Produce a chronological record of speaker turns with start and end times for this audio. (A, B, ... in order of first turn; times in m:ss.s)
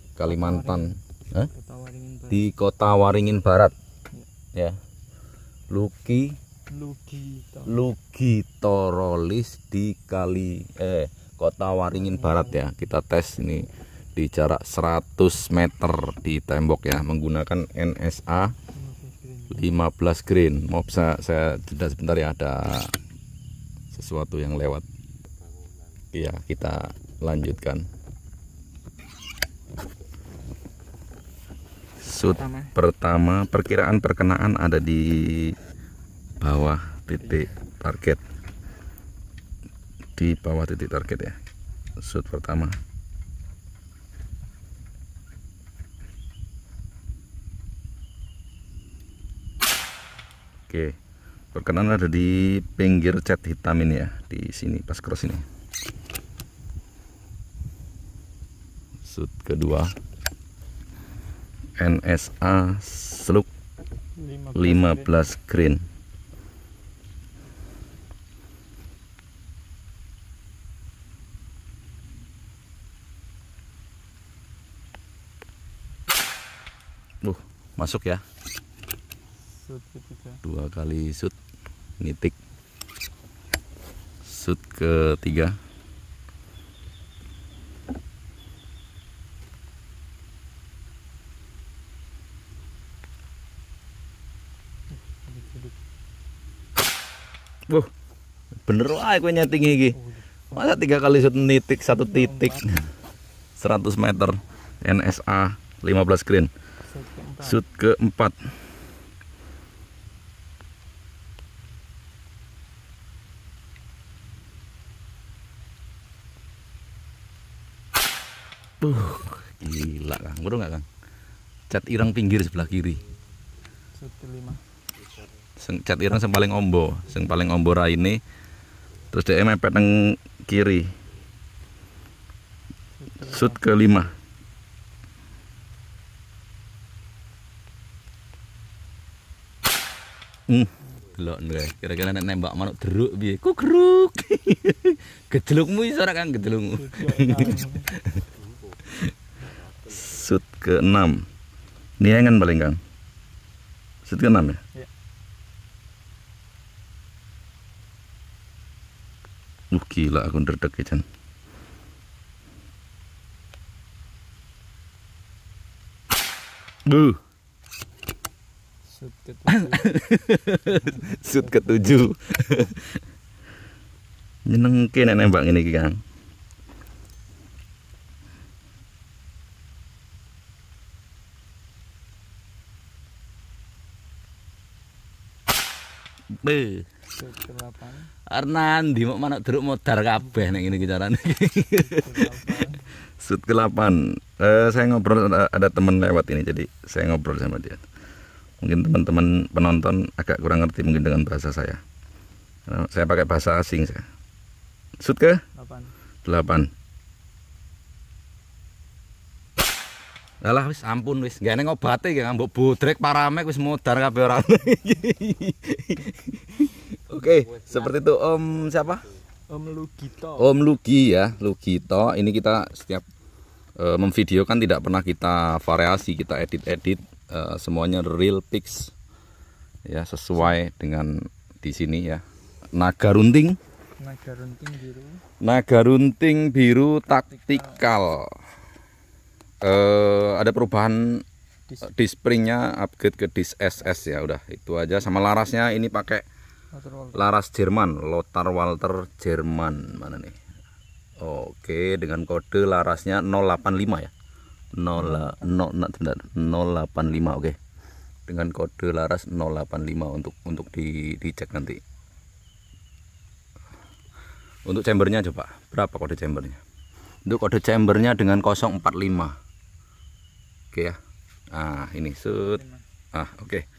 0:00.2-0:01.5 A
0:00.2-0:02.4 B
0:02.3-0:03.8 A
0:05.7-0:06.4 A
0:06.7-0:07.8 B
0:07.7-0:18.6 A
0:12.0-0:12.6 B
0:18.7-0:19.7 B
0:19.5-0:23.0 A
0:23.9-0:24.8 A
0:26.1-0:27.9 A
0:32.0-0:35.6 A
0:32.4-0:32.7 B
0:36.4-0:38.2 A
0:40.2-0:41.4 A
0:42.0-0:42.8 A
0:50.7-0:51.0 A
0:51.5-0:55.5 A
0:59.1-0:59.9 A
1:01.8-1:03.5 A
1:04.2-1:05.1 B
1:04.6-1:05.8 A
1:17.2-1:18.2 A
1:19.5-1:20.4 B
1:20.4-1:21.3 A
1:22.0-1:22.4 A
1:24.2-1:25.6 A
1:34.9-1:35.8 B
1:38.7-1:40.0 A
1:40.0-1:40.8 B
1:40.5-1:42.9 A
1:41.9-1:42.7 B
1:43.6-1:46.5 A
1:46.8-1:47.6 B
1:47.4-1:48.4 A
1:58.8-2:00.8 A
2:01.7-2:03.0 A
2:04.0-2:04.6 B
2:05.6-2:08.2 A
2:09.1-2:10.9 A
2:13.0-2:13.7 B
2:13.2-2:14.1 A
2:20.5-2:28.2 A
2:26.8-2:28.0 B
2:29.9-2:31.2 A
2:32.0-2:32.8 A
2:34.1-2:34.6 A
2:39.7-2:41.0 A
2:46.9-2:47.2 A
2:48.9-2:50.0 B
2:49.5-2:53.0 A
2:50.7-2:51.7 B
2:54.5-2:56.0 A
3:06.4-3:06.9 A
3:07.1-3:08.1 B
3:08.3-3:17.8 A
3:10.2-3:10.7 B
3:11.7-3:12.9 B
3:18.6-3:21.8 A
3:22.7-3:24.0 A
3:25.0-3:25.4 A
3:25.6-3:26.0 B
3:26.2-3:26.7 A
3:30.4-3:39.1 A
3:39.5-3:40.5 B
3:40.4-3:43.1 A
3:43.8-3:48.9 A
3:49.9-3:52.2 A
3:52.8-3:53.6 A
3:54.0-3:55.2 B
3:55.4-3:58.4 A
3:57.3-3:57.8 B
3:59.6-4:01.3 A
4:01.8-4:06.2 A
4:06.7-4:07.2 B
4:07.1-4:10.4 A
4:11.2-4:14.1 A
4:14.8-4:17.6 A
4:15.0-4:15.3 B
4:18.3-4:21.8 A
4:24.7-4:26.6 A
4:27.3-4:29.4 A
4:30.7-4:31.0 A
4:31.5-4:32.6 A
4:32.4-4:32.8 B
4:33.1-4:33.6 A